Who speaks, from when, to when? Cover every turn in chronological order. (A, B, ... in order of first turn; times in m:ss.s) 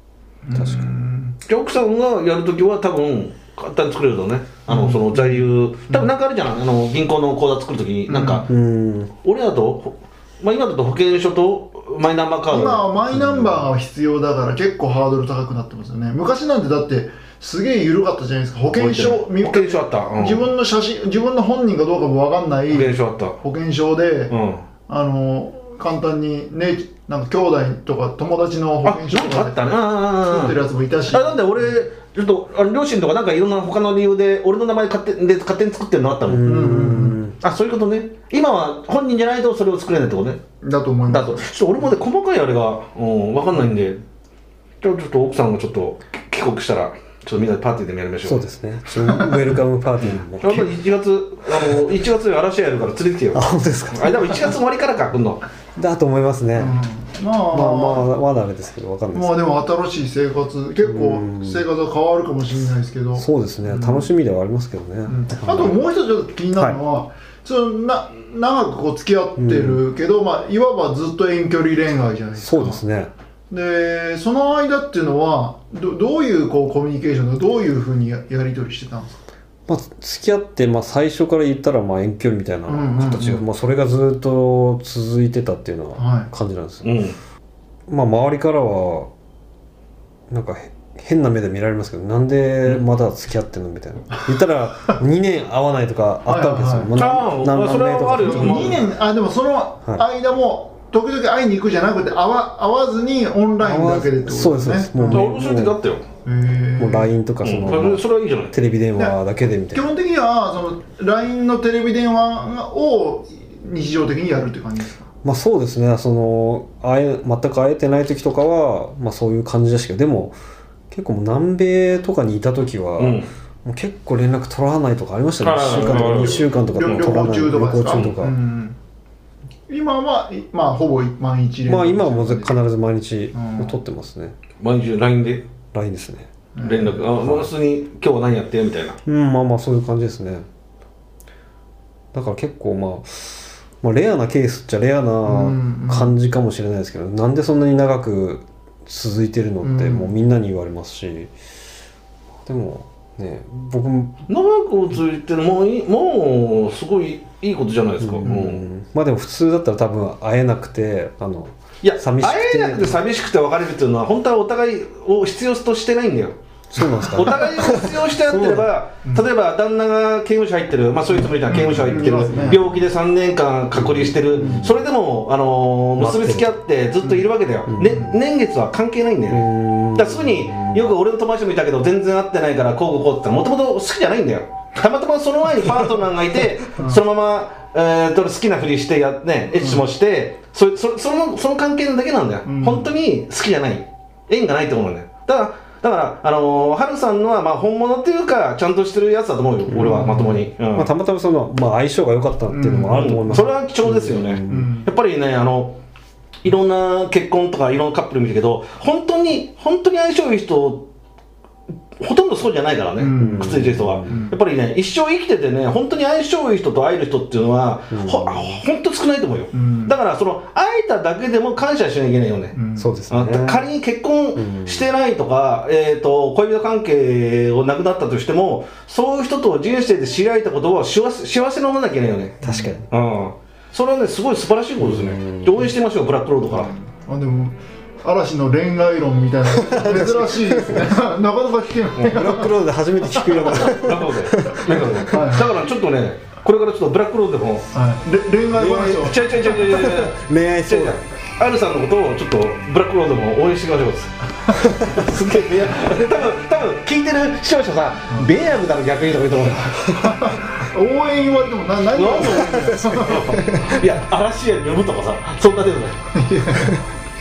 0:00.4-0:01.4 A
0:00.5-0:00.9 B
0:01.4-0:08.5 C
0:04.7-0:06.1 A
0:08.1-0:08.5 A
0:08.5-0:09.1 B
0:09.2-0:12.8 C
0:12.5-0:24.3 A
0:13.1-0:13.6 B
0:18.7-0:20.4 C
0:22.7-0:23.4 C
0:24.3-0:24.6 C
0:24.9-0:31.7 A
0:28.8-0:30.6 C
0:31.1-0:36.7 C
0:36.2-0:37.3 B
0:36.4-0:37.2 A
0:37.4-0:40.4 C
0:40.6-0:41.4 A
0:41.1-0:44.0 C
0:44.8-0:48.4 C
0:48.2-0:50.8 B
0:49.0-0:49.4 A
0:50.4-0:55.4 C
0:53.3-0:54.5 B
0:55.8-0:56.8 B
0:56.6-0:58.1 A
0:57.5-0:59.4 B
0:59.1-1:04.1 A
1:00.8-1:01.6 B
1:03.2-1:05.8 B
1:05.0-1:12.8 A
1:09.4-1:09.8 B
1:12.4-1:13.1 B
1:13.5-1:19.2 A
1:19.7-1:27.0 B
1:22.7-1:23.4 A
1:26.0-1:26.3 A
1:26.8-1:27.2 C
1:27.9-1:29.1 B
1:30.3-1:38.8 B
1:36.2-1:37.0 A
1:37.0-1:38.9 C
1:38.2-1:45.3 A
1:43.6-1:45.8 B
1:45.1-1:46.0 C
1:46.2-1:47.1 A
1:46.8-1:49.9 B
1:47.4-1:48.5 C
1:49.7-1:55.0 A
1:55.2-2:00.4 B
2:00.9-2:08.3 B
2:03.0-2:03.3 C
2:05.4-2:07.0 C
2:06.2-2:08.8 A
2:09.7-2:12.5 A
2:11.6-2:14.4 B
2:13.3-2:13.7 A
2:14.6-2:15.4 C
2:15.7-2:16.3 B
2:16.6-2:17.0 A
2:16.6-2:19.0 C
2:17.2-2:17.5 B
2:19.0-2:20.4 B
2:22.1-2:31.3 B
2:25.2-2:26.1 A
2:29.6-2:30.1 A
2:32.4-2:34.2 B
2:34.3-2:38.6 C
2:38.0-2:43.0 B
2:41.8-2:46.4 C
2:46.7-2:48.7 B
2:47.1-3:20.9 C
2:51.5-2:52.6 A
2:53.8-2:54.8 B
2:54.4-2:54.6 A
2:56.0-2:56.6 B
2:57.7-2:58.1 B
2:59.3-3:00.9 B
3:09.6-3:09.8 A
3:12.4-3:12.9 A
3:19.7-3:24.7 B
3:19.8-3:20.4 A
3:22.5-3:23.4 A
3:22.9-3:25.8 C
3:24.5-3:24.9 A
3:26.4-3:30.9 C
3:32.0-3:42.6 C
3:33.0-3:33.5 A
3:33.2-3:34.2 B
3:34.0-3:34.3 A
3:37.9-3:38.6 B
3:39.5-3:39.9 A
3:42.5-3:42.9 A
3:42.8-3:43.6 B
3:43.1-3:52.4 C
3:44.4-3:44.9 B
3:52.4-3:52.8 B
3:52.4-3:52.7 A
3:52.9-3:56.7 C
3:54.8-3:55.7 B
3:56.5-4:02.6 A
3:59.5-4:01.0 B
4:02.0-4:05.0 B
4:03.5-4:07.7 C
4:05.0-4:05.5 A
4:07.7-4:09.8 A
4:08.6-4:11.0 B
4:08.9-4:14.1 C
4:14.6-4:15.1 B
4:14.8-4:19.9 C
4:20.0-4:23.8 A
4:21.9-4:26.0 C
4:22.6-4:23.4 B
4:26.1-4:26.8 A